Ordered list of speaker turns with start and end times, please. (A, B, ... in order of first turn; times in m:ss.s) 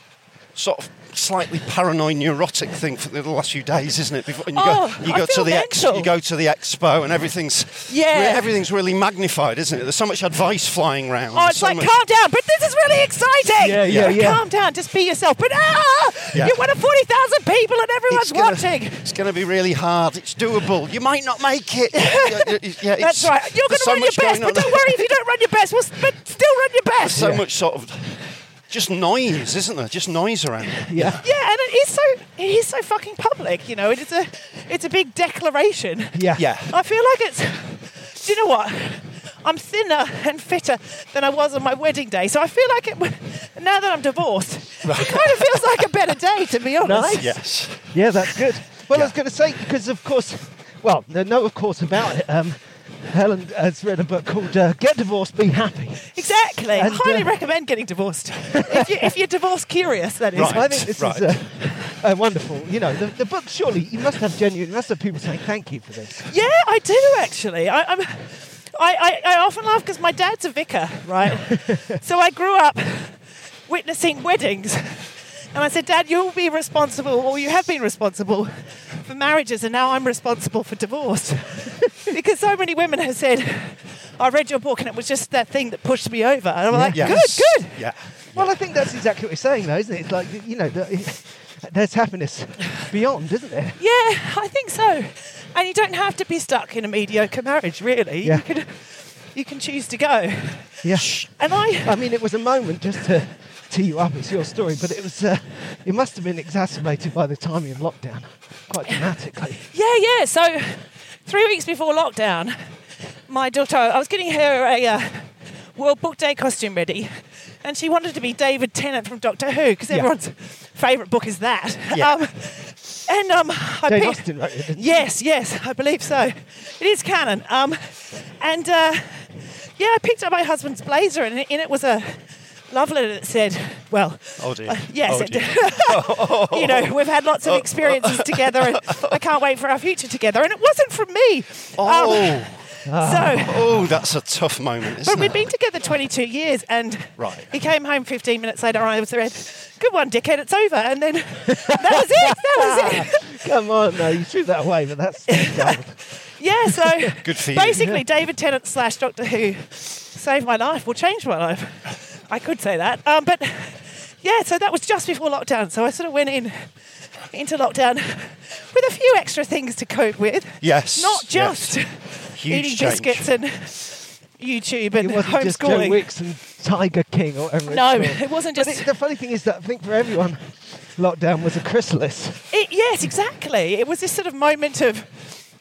0:00.6-0:12.0 A
0:04.5-0:06.1 B
0:07.9-0:08.5 B
0:11.3-0:19.1 B
0:13.6-0:14.4 C
0:13.9-0:14.2 A
0:18.1-0:25.1 A
0:21.9-0:27.4 B
0:27.0-0:31.3 A
0:27.1-0:27.4 C
0:30.9-0:31.2 C
0:31.2-0:47.4 B
0:36.1-0:36.4 C
0:36.4-0:36.7 A
0:44.8-0:45.6 A
0:46.8-0:57.3 C
0:47.1-0:48.0 A
0:56.1-1:00.9 B
0:58.5-0:59.1 C
1:00.3-1:06.3 C
1:00.3-1:01.3 A
1:06.3-1:27.8 B
1:11.3-1:12.0 C
1:26.7-1:27.4 C
1:26.9-1:28.6 A
1:28.3-1:33.8 C
1:33.8-1:42.1 B
1:40.8-1:49.6 C
1:49.7-1:52.7 B
1:53.3-2:23.7 B
2:01.9-2:02.2 A
2:03.9-2:05.1 C
2:14.4-2:19.2 A
2:21.8-2:22.7 A
2:22.9-2:23.5 C
2:23.3-2:25.4 A
2:25.0-2:33.3 B
2:27.2-2:27.5 A
2:31.9-2:36.0 C
2:35.3-2:46.7 B
2:36.7-2:36.9 C
2:37.2-2:37.9 A
2:37.8-2:38.0 C
2:47.3-2:56.1 B
2:50.6-2:53.3 A
2:55.0-3:02.4 C
2:57.7-2:58.9 B
3:02.5-3:05.4 B